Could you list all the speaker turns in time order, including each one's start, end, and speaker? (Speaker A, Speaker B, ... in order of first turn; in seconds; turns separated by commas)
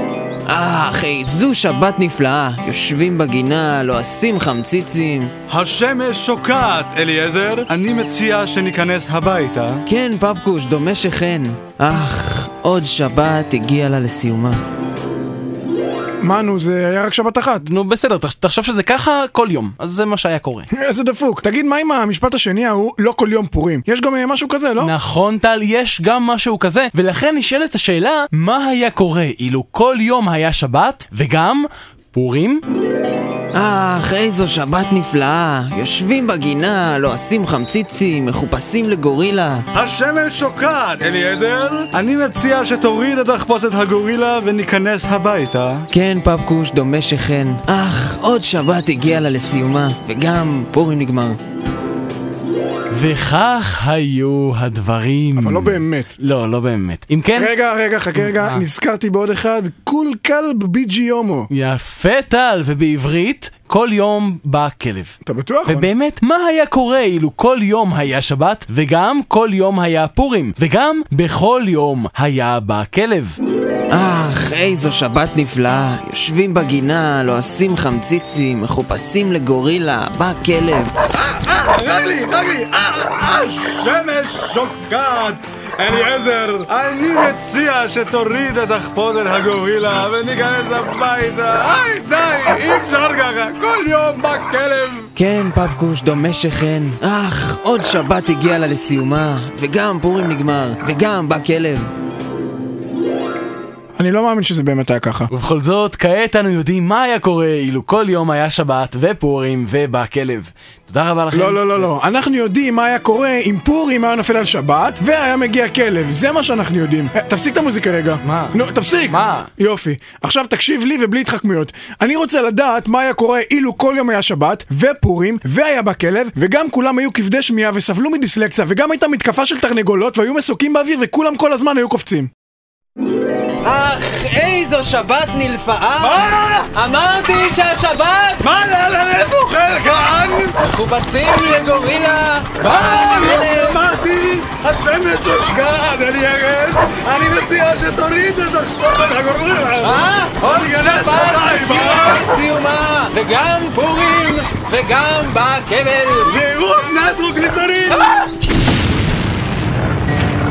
Speaker A: 0.5-5.3, Speaker B: 5.5-9.8, Speaker A: 9.9-14.6, Speaker C: 16.2-17.6, Speaker D: 17.6-20.7, Speaker C: 20.7-24.9, Speaker D: 24.8-32.6, Speaker A: 33.5-39.6, Speaker B: 39.7-45.9, Speaker A: 45.9-51.4, Speaker D: 52.9-57.5, Speaker C: 55.4-56.1, Speaker C: 57.3-61.5, Speaker D: 58.1-58.6, Speaker D: 61.5-65.1, Speaker C: 65.2-65.9, Speaker D: 65.7-73.3, Speaker A: 73.9-81.0, Speaker B: 81.1-95.1, Speaker A: 95.2-101.9, Speaker C: 104.0-105.3, Speaker D: 105.3-111.9, Speaker C: 111.3-132.3, Speaker D: 118.2-119.5, Speaker A: 133.6-138.4, Speaker B: 136.0-136.7, Speaker B: 138.4-140.6, Speaker A: 140.6-143.8, Speaker B: 142.6-152.2, Speaker A: 149.8-156.3, Speaker B: 156.3-158.2